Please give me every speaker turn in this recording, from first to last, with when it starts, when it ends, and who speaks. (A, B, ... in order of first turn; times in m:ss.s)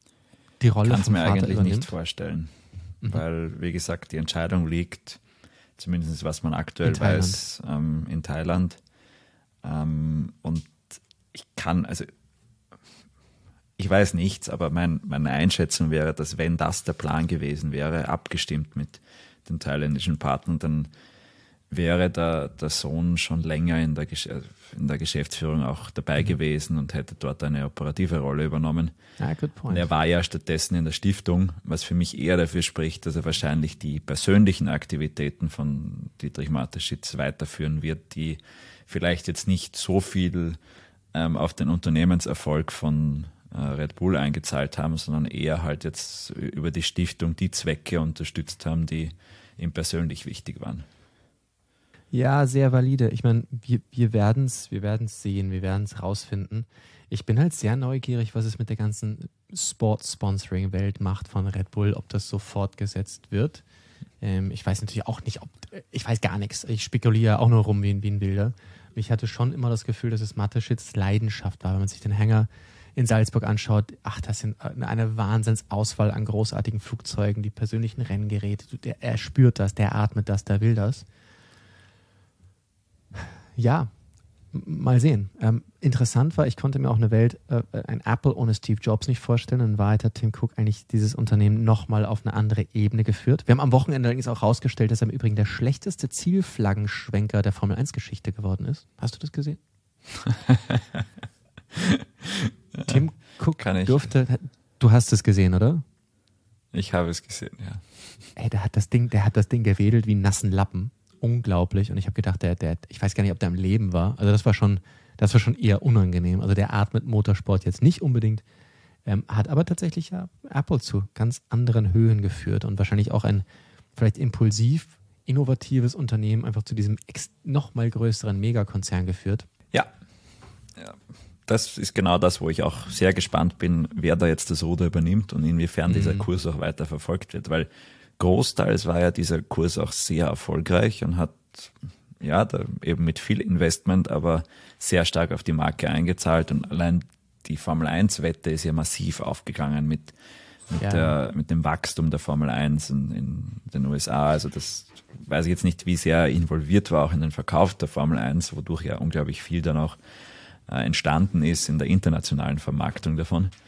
0:00.6-0:01.9 A
0:00.8-0:02.5 B
0:03.0-0:05.2 B
0:05.8-0:08.8 B
0:06.8-0:07.4 A
0:09.6-0:12.1 B
0:13.8-0:20.9 B
0:21.7-0:28.9 B
0:29.2-0:29.9 A
0:29.7-0:40.6 B
0:41.1-0:50.8 B
0:52.1-1:03.6 A
1:04.2-1:21.0 A
1:23.2-1:23.9 A
1:24.5-1:39.6 A
1:40.2-1:41.0 B
1:41.7-1:43.0 B
1:42.9-1:45.8 A
1:43.6-1:44.1 B
1:46.7-1:47.8 B
1:48.4-1:58.4 A
1:59.0-2:03.4 A
2:04.0-2:09.5 A
2:10.8-2:17.7 B
2:15.9-2:16.3 A
2:18.2-2:30.1 B
2:30.7-2:40.0 B
2:30.8-2:31.2 A
2:40.7-2:43.5 B